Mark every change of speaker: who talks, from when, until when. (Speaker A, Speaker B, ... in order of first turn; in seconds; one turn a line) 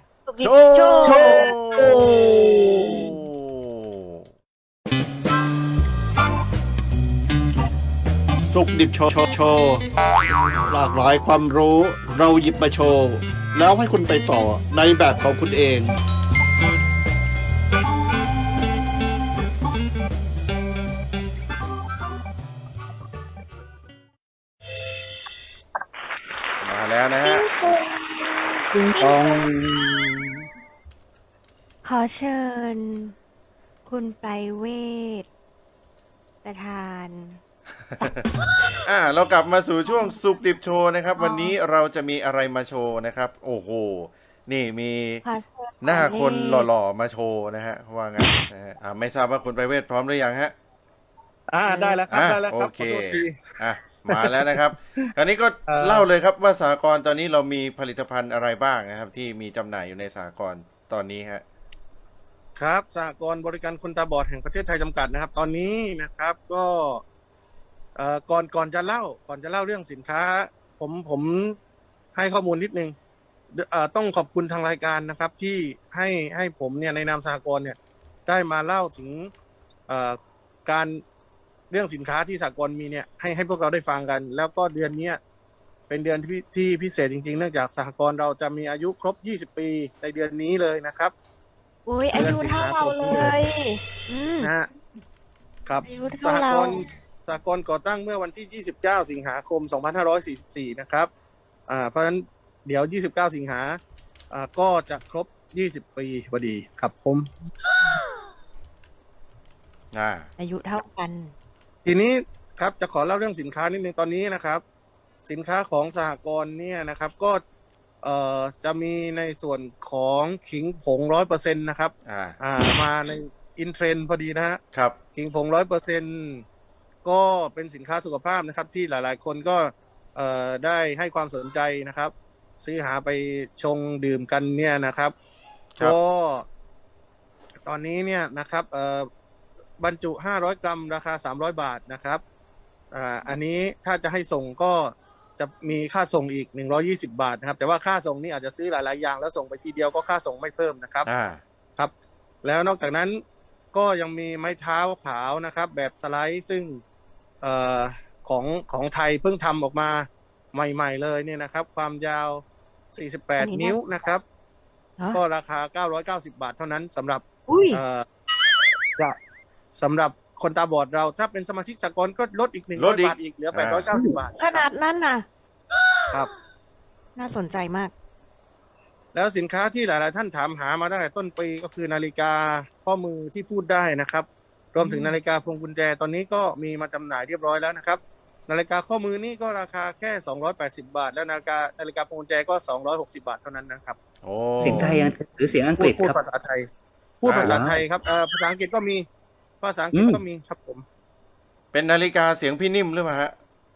Speaker A: 0.3-1.6
Speaker B: 0.4-2.1
Speaker C: 1.1-2.9
Speaker D: 1.1-1.4
Speaker D: 2.1-2.8
Speaker B: 3.0-4.2
Speaker D: 8.5-9.8
Speaker D: 10.6-15.9
Speaker B: 26.6-27.4
Speaker A: 27.2-29.5
Speaker C: 29.0-30.4
Speaker A: 31.8-33.1
Speaker A: 33.9-35.3
Speaker A: 36.4-37.4
Speaker A: 38.0-38.3
Speaker B: 38.8-45.2
Speaker A: 39.9-40.1
Speaker A: 41.2-41.5
Speaker A: 45.2-46.7
Speaker B: 45.8-50.5
Speaker E: 51.5-53.6
Speaker A: 51.7-52.0
Speaker B: 52.1-61.4
Speaker E: 54.1-54.6
Speaker E: 55.7-56.1
Speaker E: 62.5-67.0
Speaker E: 68.0-71.6
Speaker E: 72.2-73.0
Speaker E: 73.5-79.3
Speaker E: 79.9-81.0
Speaker E: 81.7-85.2
Speaker E: 85.9-91.1
Speaker A: 91.9-94.5
Speaker E: 92.1-93.3
Speaker E: 94.4-94.7
Speaker E: 95.7-101.1
Speaker A: 95.8-96.8
Speaker E: 101.7-103.8
Speaker E: 104.3-107.3
Speaker B: 109.9-110.3
Speaker A: 110.4-111.3
Speaker E: 111.8-114.6
Speaker E: 115.2-117.4
Speaker E: 118.0-124.6
Speaker B: 122.0-122.4
Speaker E: 125.1-126.4
Speaker E: 127.0-135.1
Speaker E: 135.8-136.4
Speaker E: 137.6-139.1
Speaker E: 139.8-142.2
Speaker E: 142.9-151.1
Speaker B: 151.1-151.4
Speaker E: 152.4-153.2
Speaker E: 153.7-156.8
Speaker E: 157.4-164.2
Speaker A: 163.4-163.8
Speaker E: 165.1-168.1
Speaker A: 167.5-167.8
Speaker E: 169.8-174.7
Speaker B: 172.8-173.9
Speaker A: 174.2-175.2
Speaker A: 177.2-177.9
Speaker E: 179.1-194.0
Speaker A: 184.8-185.2
Speaker B: 194.2-194.9
Speaker C: 194.6-196.2
Speaker A: 194.7-195.1
Speaker E: 195.8-196.7
Speaker E: 197.2-199.1
Speaker B: 197.2-197.6
Speaker C: 197.4-197.8
Speaker E: 199.6-200.8
Speaker C: 199.9-200.2
Speaker B: 201.7-203.3